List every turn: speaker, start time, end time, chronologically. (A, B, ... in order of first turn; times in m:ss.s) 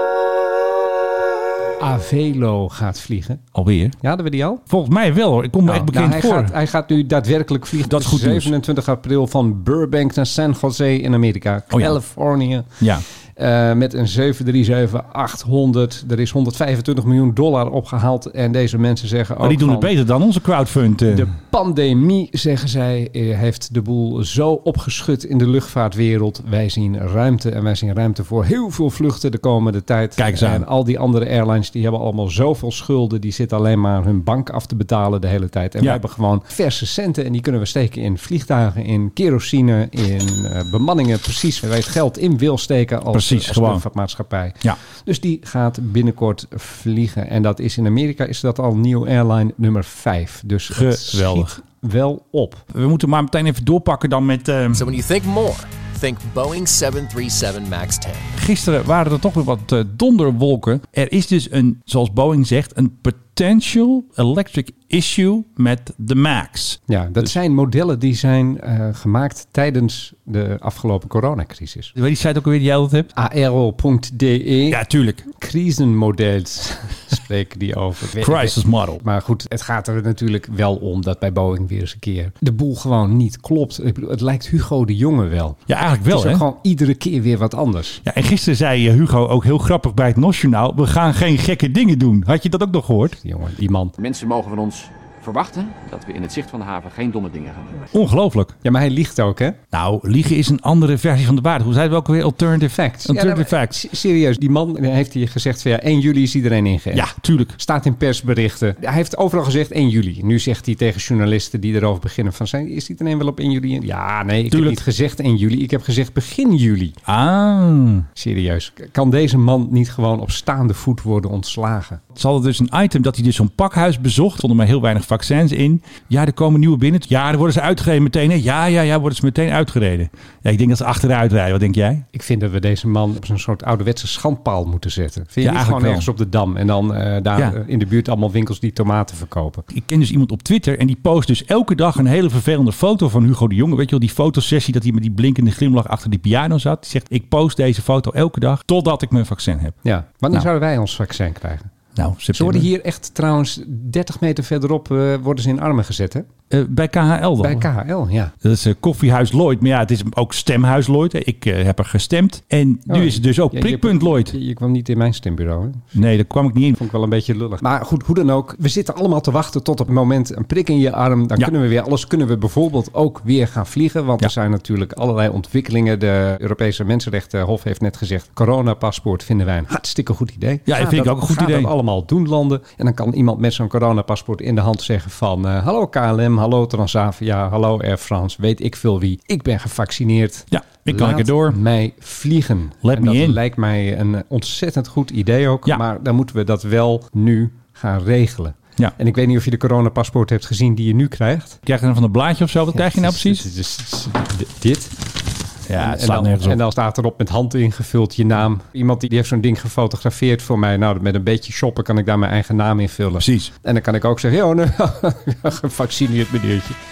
0:01.8-0:03.4 A
0:03.5-0:04.0 B
0:04.0-0:04.6 A
0:04.7-0:06.5 B
0:05.7-0:12.7 A
0:07.8-0:08.5 B
0:12.8-0:13.0 B
0:13.4-0:19.9 A
0:19.4-0:21.3 B
0:21.1-0:52.6 A
0:30.2-0:30.7 B
0:43.1-0:43.8 B
0:50.7-0:51.6 B
0:52.7-0:54.9 B
0:54.7-0:58.3 C
0:58.4-1:07.3 B
1:06.9-1:11.9 A
1:12.0-1:13.1 B
1:13.2-1:28.0 A
1:14.7-1:15.2 B
1:18.2-1:19.0 B
1:25.7-1:26.4 B
1:28.0-1:33.2 B
1:33.2-1:33.9 A
1:34.0-1:37.9 D
1:37.9-1:38.6 B
1:38.6-1:39.6 A
1:39.7-1:43.8 B
1:42.7-1:57.0 A
1:46.9-1:47.6 B
1:54.5-1:54.8 B
1:57.1-1:58.1 B
1:58.2-2:02.0 A
2:02.2-2:12.1 B
2:12.1-2:19.7 A
2:15.4-2:16.1 B
2:19.7-2:29.8 B
2:29.8-2:31.7 A
2:32.0-2:32.7 B
2:32.3-2:36.3 A
2:36.5-2:37.7 B
2:37.4-2:38.3 A
2:38.4-2:44.3 B
2:42.9-2:45.9 A
2:45.9-2:46.8 B
2:46.8-3:21.6 A
3:00.7-3:01.7 B
3:10.5-3:11.6 B
3:12.8-3:13.4 B
3:21.7-3:23.4 B
3:22.7-3:24.9 A
3:25.7-3:26.6 B
3:25.8-3:36.8 A
3:33.2-3:33.5 B